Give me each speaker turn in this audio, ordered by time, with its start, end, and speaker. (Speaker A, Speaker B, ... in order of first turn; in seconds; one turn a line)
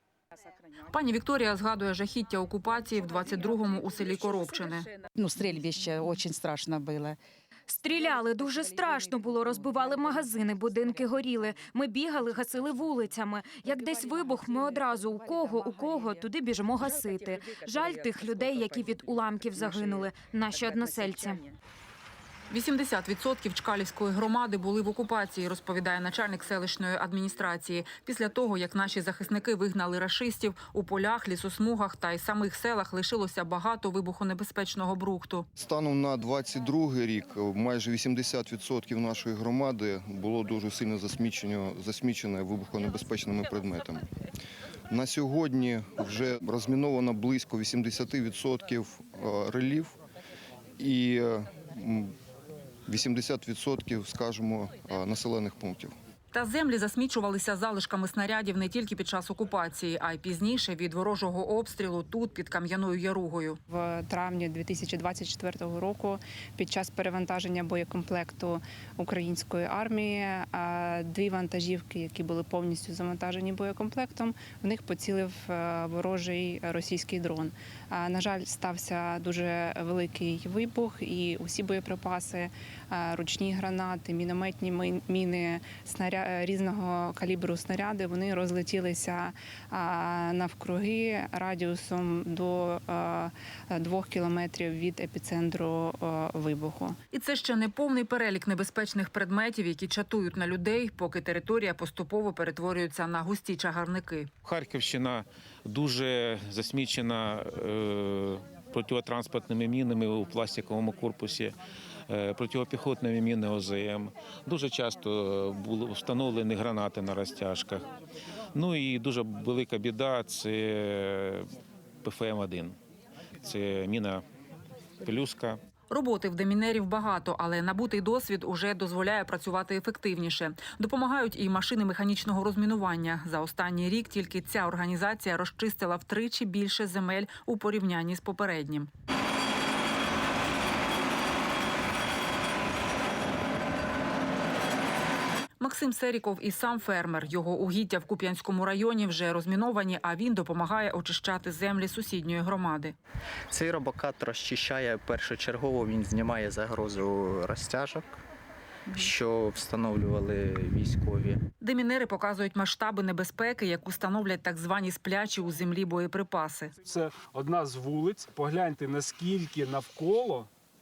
Speaker A: 0.8-4.9
Speaker B: 5.1-7.2
Speaker C: 7.7-21.4
Speaker A: 22.5-35.5
Speaker D: 35.6-44.0
Speaker D: 44.9-50.0
Speaker D: 50.8-52.1
Speaker D: 52.9-55.9
Speaker A: 56.3-63.6
Speaker E: 63.7-97.0
Speaker A: 97.1-104.3
Speaker F: 104.4-111.5
Speaker F: 112.1-117.8
Speaker F: 118.5-121.5
Speaker F: 122.0-122.8
Speaker F: 123.4-124.2
Speaker F: 125.0-125.6
Speaker A: 125.9-138.9
Speaker A: 145.6-152.9
Speaker G: 153.5-158.2
Speaker G: 158.9-161.4
Speaker A: 161.6-166.7
Speaker H: 166.8-170.5